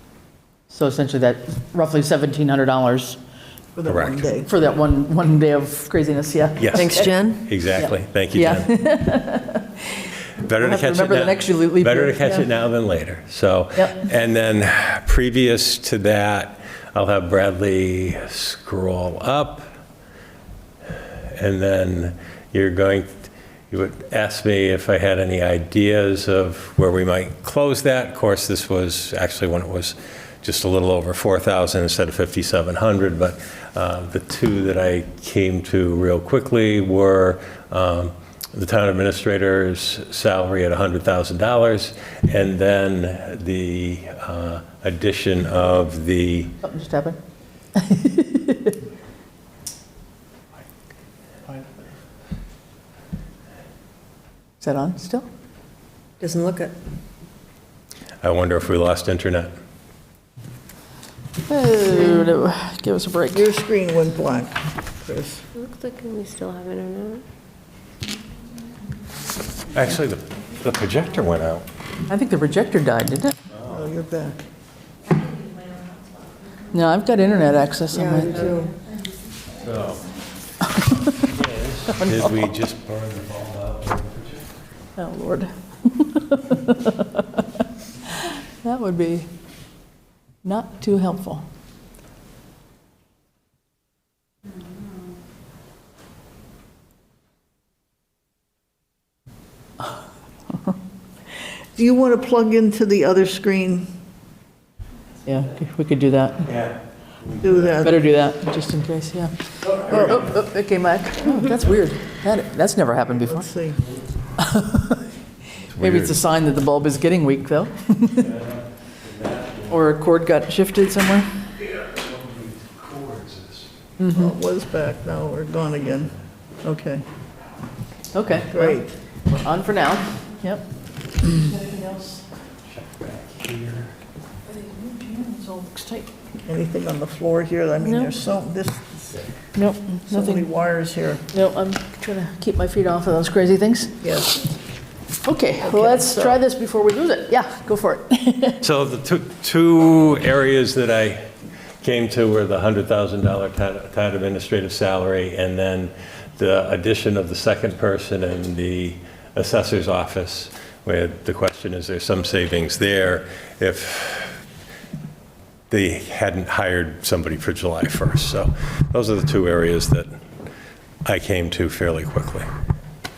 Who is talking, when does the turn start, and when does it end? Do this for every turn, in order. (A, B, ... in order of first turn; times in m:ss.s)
0:00.7-0:03.2 A
0:03.8-0:04.5 B
0:03.9-0:04.3 C
0:04.5-0:07.1 A
0:06.6-0:08.7 C
0:06.7-0:07.4 D
0:07.7-0:12.4 A
0:10.4-0:19.7 C
0:13.7-0:14.0 A
0:21.2-0:46.6 C
0:46.6-0:47.2 A
0:47.8-0:48.8 A
0:54.6-0:55.3 A
0:56.2-0:56.8 D
0:58.2-0:59.5 C
1:01.5-1:03.5 A
1:03.3-1:05.5 B
1:05.6-1:07.2 E
1:09.7-1:11.7 C
1:12.1-1:13.3 A
1:13.7-1:14.4 B
1:15.1-1:16.6 E
1:16.7-1:18.6 A
1:17.9-1:18.7 D
1:19.5-1:20.2 C
1:21.2-1:24.5 C
1:25.0-1:27.4 A
1:28.1-1:29.3 A
1:30.4-1:31.4 A
1:41.8-1:43.9 B
1:45.2-1:46.6 A
1:47.4-1:48.0 B
1:47.8-1:53.5 A
1:49.9-1:50.3 B
1:53.4-1:53.8 B
1:54.4-1:55.1 A
1:55.7-1:56.1 C
1:55.8-1:58.3 A
1:58.3-1:59.7 C
1:59.7-2:01.3 A
2:01.9-2:03.7 C
2:04.0-2:04.3 A
2:04.1-2:06.1 B
2:06.6-2:07.0 B
2:08.1-2:10.6 A
2:08.5-2:09.0 B
2:11.2-2:12.2 A
2:12.8-2:13.9 C
2:14.5-2:16.1 A
2:16.4-2:19.2 B
2:17.8-2:18.2 A
2:19.6-2:20.5 A
2:20.1-2:21.2 B
2:21.3-2:24.0 A
2:24.0-2:24.4 B
2:25.2-2:28.6 A
2:25.6-2:26.4 B
2:28.6-2:44.4 C
2:45.7-2:50.1 C
2:51.0-2:52.5 C